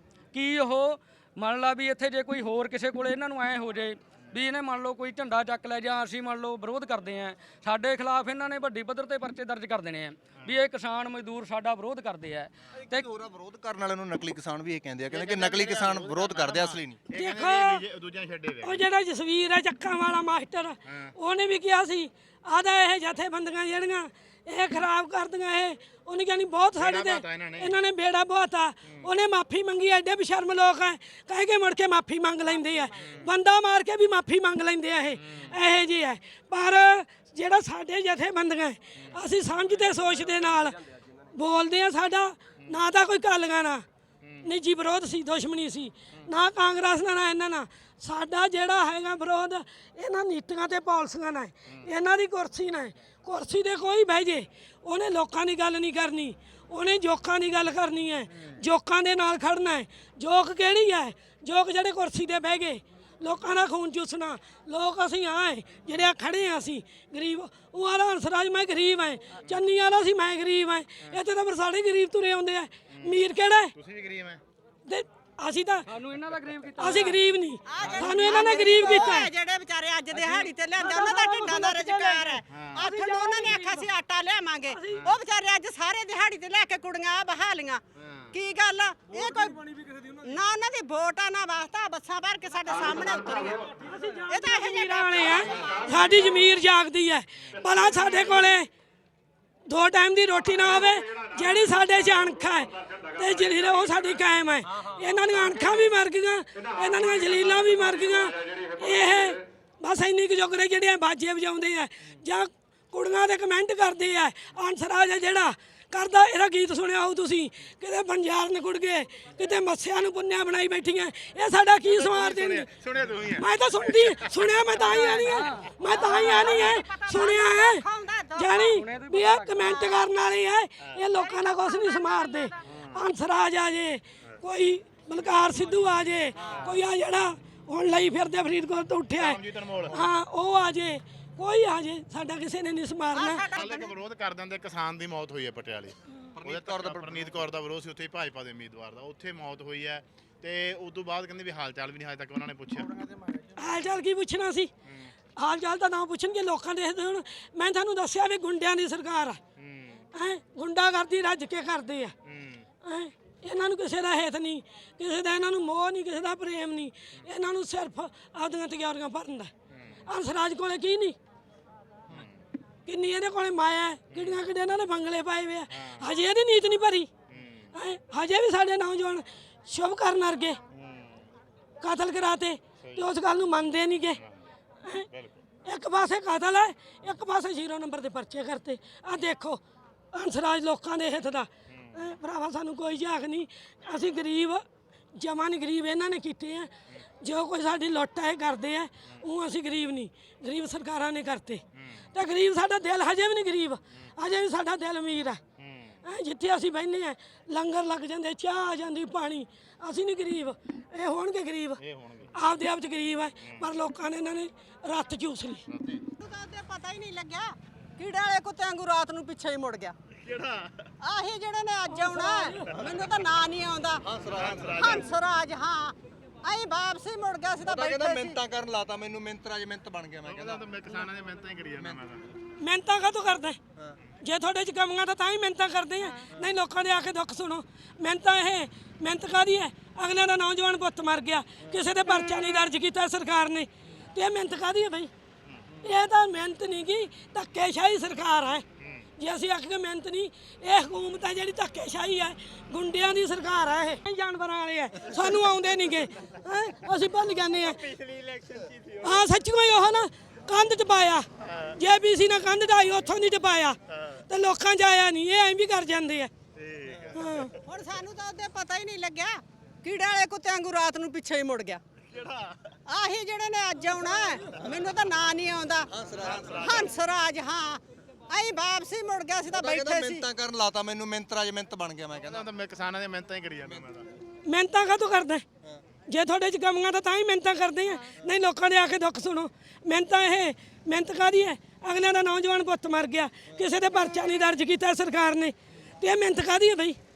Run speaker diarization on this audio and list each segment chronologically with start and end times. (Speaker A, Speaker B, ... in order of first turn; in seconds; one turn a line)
Speaker A: 0.3-13.1
Speaker B: 12.8-17.0
Speaker C: 15.1-18.8
Speaker D: 17.1-17.8
Speaker D: 18.6-40.8
Speaker C: 20.9-21.1
Speaker C: 26.8-27.7
Speaker C: 32.9-33.2
Speaker C: 35.2-35.5
Speaker D: 41.3-43.8
Speaker D: 44.4-73.7
Speaker C: 72.9-73.2
Speaker C: 73.8-74.4
Speaker D: 74.9-75.8
Speaker A: 75.9-77.2
Speaker D: 76.8-79.3
Speaker E: 77.7-87.8
Speaker D: 80.3-83.9
Speaker C: 82.5-82.8
Speaker D: 84.7-85.1
Speaker C: 84.9-85.2
Speaker C: 88.0-88.3
Speaker E: 88.3-89.6
Speaker E: 90.2-93.6
Speaker D: 93.7-98.7
Speaker E: 94.3-95.8
Speaker D: 99.7-122.7
Speaker C: 121.8-124.7
Speaker D: 123.3-127.8
Speaker A: 124.9-125.6
Speaker E: 125.8-128.8
Speaker D: 128.3-139.4
Speaker A: 128.7-129.6
Speaker E: 129.6-130.0
Speaker E: 131.1-132.5
Speaker C: 136.4-136.7
Speaker C: 139.2-140.1
Speaker D: 139.9-143.4
Speaker E: 143.1-143.9
Speaker C: 143.5-153.1
Speaker B: 146.4-147.3
Speaker D: 153.6-154.7
Speaker C: 154.8-155.1
Speaker D: 155.3-159.4
Speaker C: 159.6-160.0
Speaker D: 160.1-162.1
Speaker C: 162.2-162.6
Speaker D: 162.8-169.5
Speaker C: 169.7-170.0
Speaker D: 170.1-171.2
Speaker C: 172.1-172.4
Speaker D: 172.8-177.1
Speaker C: 174.1-174.4
Speaker C: 177.3-177.7
Speaker D: 177.7-180.6
Speaker C: 180.7-181.2
Speaker D: 181.8-184.2
Speaker D: 185.6-189.6
Speaker D: 190.1-194.6
Speaker D: 195.1-201.6
Speaker C: 201.7-202.0
Speaker D: 202.1-205.4
Speaker C: 205.6-206.0
Speaker D: 206.0-211.8
Speaker C: 211.8-212.3
Speaker D: 212.3-215.7
Speaker C: 215.7-216.0
Speaker E: 216.2-219.9
Speaker C: 220.2-220.9
Speaker E: 221.0-224.0
Speaker D: 221.9-222.7
Speaker B: 224.0-225.0
Speaker C: 224.3-225.1
Speaker E: 224.8-228.4
Speaker B: 227.6-230.6
Speaker C: 230.3-232.3
Speaker D: 232.6-233.6
Speaker D: 234.2-245.1
Speaker D: 245.8-248.6
Speaker D: 249.2-257.9
Speaker C: 257.9-259.1
Speaker D: 259.0-261.2
Speaker C: 261.4-261.7
Speaker D: 261.8-266.3
Speaker C: 263.9-264.1
Speaker C: 266.5-267.5
Speaker D: 267.1-267.5
Speaker E: 267.6-271.8
Speaker C: 272.1-272.7
Speaker E: 272.9-275.9
Speaker B: 275.9-276.9
Speaker C: 276.3-276.8
Speaker E: 276.6-280.2
Speaker B: 279.5-282.4
Speaker C: 282.2-284.1
Speaker D: 284.4-285.4
Speaker D: 286.1-297.0